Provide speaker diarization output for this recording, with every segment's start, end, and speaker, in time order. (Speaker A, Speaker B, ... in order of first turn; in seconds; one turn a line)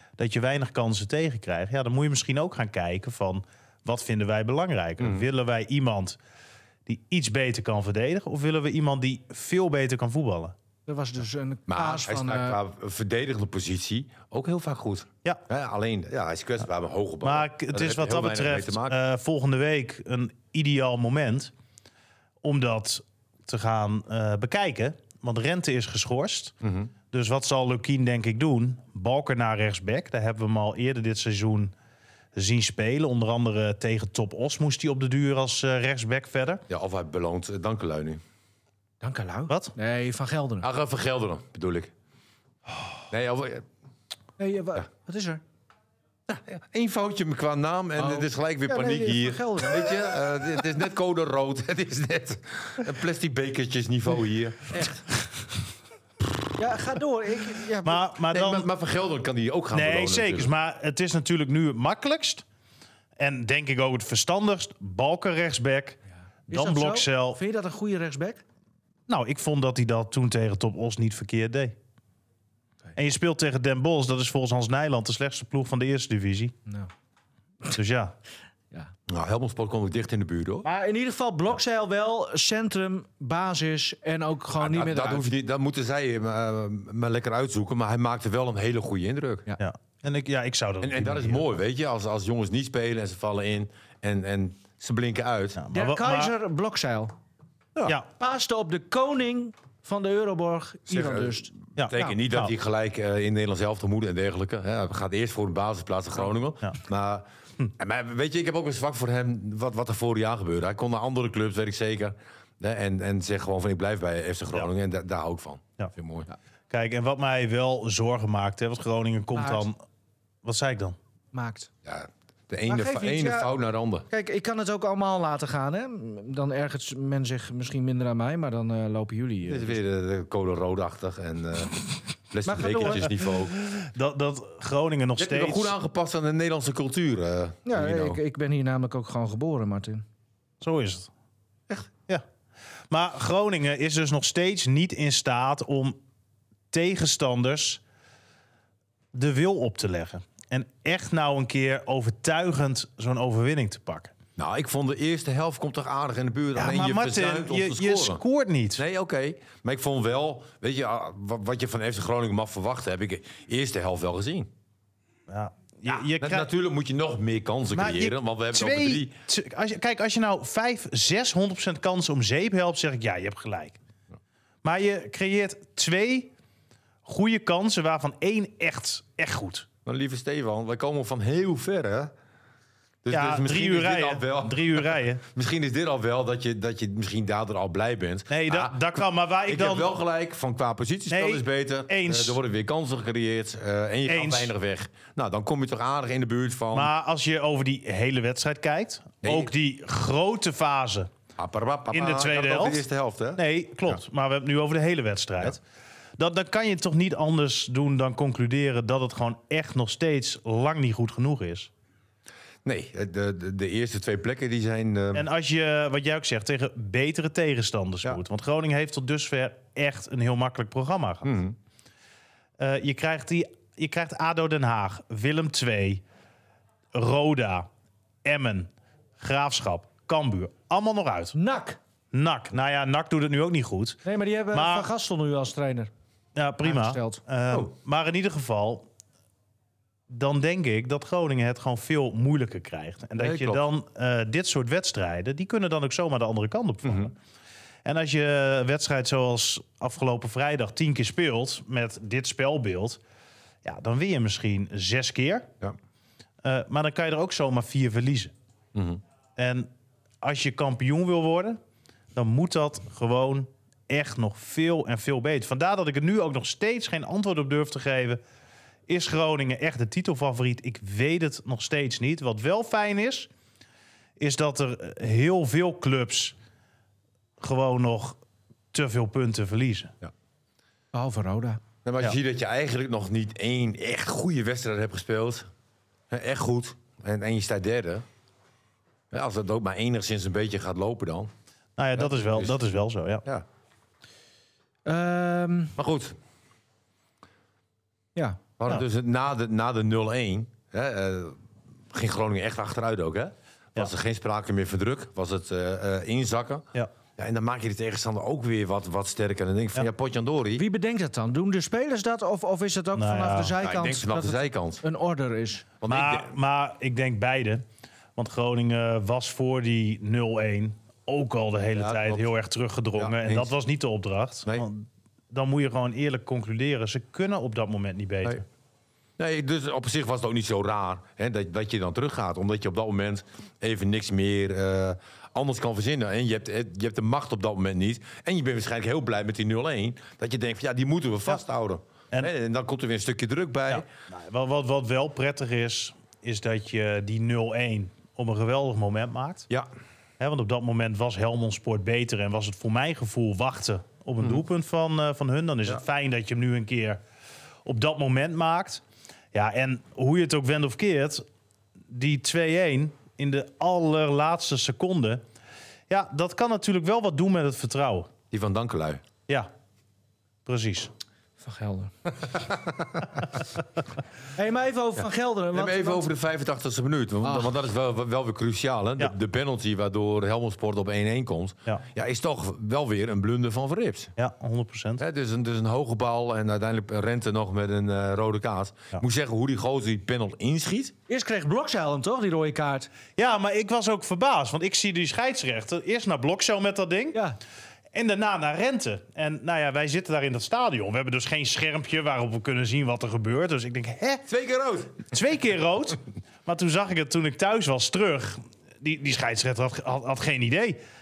Speaker A: 0.2-6.2
Speaker B: 5.0-5.3
Speaker A: 6.9-10.6
Speaker C: 10.9-12.6
Speaker B: 11.7-19.0
Speaker A: 17.2-21.5
Speaker A: 22.4-26.5
Speaker B: 26.6-26.9
Speaker A: 27.1-31.7
Speaker A: 32.4-36.6
Speaker B: 36.7-38.2
Speaker C: 39.0-40.7
Speaker B: 40.6-41.9
Speaker B: 43.1-43.7
Speaker C: 44.4-45.4
Speaker B: 46.3-55.0
Speaker C: 48.0-49.9
Speaker C: 56.6-58.1
Speaker A: 57.9-58.7
Speaker B: 58.3-60.5
Speaker A: 59.7-62.4
Speaker A: 63.2-67.4
Speaker C: 66.5-68.4
Speaker A: 69.1-71.8
Speaker A: 73.0-76.5
Speaker A: 77.7-78.2
Speaker B: 79.1-80.7
Speaker C: 80.6-85.3
Speaker B: 84.6-89.5
Speaker A: 89.6-91.3
Speaker B: 90.8-95.6
Speaker A: 95.6-96.3
Speaker C: 95.7-97.1
Speaker C: 98.2-101.5
Speaker B: 100.9-116.3
Speaker A: 101.8-102.5
Speaker A: 116.7-119.8
Speaker C: 119.3-119.7
Speaker A: 120.5-121.0
Speaker C: 121.3-121.7
Speaker B: 121.8-124.1
Speaker C: 122.7-123.5
Speaker C: 124.1-129.8
Speaker B: 129.5-133.6
Speaker C: 132.4-133.3
Speaker A: 133.8-135.7
Speaker B: 135.2-138.2
Speaker C: 137.7-140.1
Speaker A: 140.6-141.1
Speaker A: 142.9-146.0
Speaker A: 146.7-147.8
Speaker A: 149.1-154.2
Speaker B: 154.4-158.2
Speaker A: 156.6-158.8
Speaker B: 158.8-164.5
Speaker A: 165.3-166.5
Speaker B: 165.9-169.1
Speaker A: 167.7-173.8
Speaker A: 174.6-176.3
Speaker A: 177.1-179.7
Speaker B: 179.8-182.1
Speaker B: 183.0-188.8
Speaker A: 183.1-185.2
Speaker A: 188.3-189.9
Speaker B: 189.5-196.9
Speaker A: 191.1-192.4
Speaker A: 194.1-194.5
Speaker A: 196.7-201.1
Speaker B: 199.2-199.5
Speaker B: 201.4-204.0
Speaker A: 201.9-202.8
Speaker A: 203.3-205.6
Speaker A: 206.2-211.7
Speaker B: 212.7-215.3
Speaker A: 215.1-221.3
Speaker B: 221.2-221.6
Speaker A: 222.6-226.0
Speaker A: 226.9-227.7
Speaker A: 228.2-231.4
Speaker C: 231.3-231.8
Speaker A: 232.1-234.0
Speaker C: 234.0-235.9
Speaker A: 234.5-234.9
Speaker A: 236.4-238.9
Speaker C: 236.6-237.2
Speaker A: 240.1-247.2
Speaker B: 243.2-243.7
Speaker B: 246.8-247.1
Speaker A: 247.8-253.0
Speaker A: 253.6-255.5
Speaker A: 256.4-258.3
Speaker B: 258.8-259.0
Speaker A: 259.4-259.7
Speaker A: 260.2-261.6
Speaker A: 262.1-268.2
Speaker A: 268.9-273.3
Speaker A: 274.2-276.4
Speaker A: 277.4-278.2
Speaker A: 278.7-279.9
Speaker C: 280.9-281.6
Speaker B: 281.9-285.5
Speaker B: 286.1-288.1
Speaker B: 289.1-291.3
Speaker A: 291.8-293.2
Speaker B: 292.0-292.6
Speaker C: 294.9-295.8
Speaker B: 295.8-296.2
Speaker C: 298.1-298.4
Speaker B: 298.6-301.4
Speaker B: 301.9-310.6
Speaker C: 310.6-315.6
Speaker A: 313.0-313.6
Speaker B: 313.6-314.8
Speaker B: 315.8-316.4
Speaker A: 315.9-317.6
Speaker A: 318.2-328.4
Speaker B: 321.8-322.3
Speaker B: 323.0-323.5
Speaker B: 329.2-343.9
Speaker A: 343.7-349.5
Speaker A: 350.2-357.0
Speaker A: 357.7-358.8
Speaker A: 359.3-361.2
Speaker A: 361.9-365.2
Speaker A: 365.9-368.1
Speaker B: 368.3-369.0
Speaker A: 370.5-370.9
Speaker C: 371.4-371.9
Speaker B: 372.2-373.1
Speaker C: 374.4-376.1
Speaker B: 375.5-384.1
Speaker C: 377.2-377.5
Speaker A: 384.2-385.0
Speaker B: 385.0-390.9
Speaker C: 391.1-392.9
Speaker A: 393.2-397.2
Speaker C: 397.1-397.4
Speaker A: 397.9-404.2
Speaker B: 404.3-405.1
Speaker A: 405.1-410.8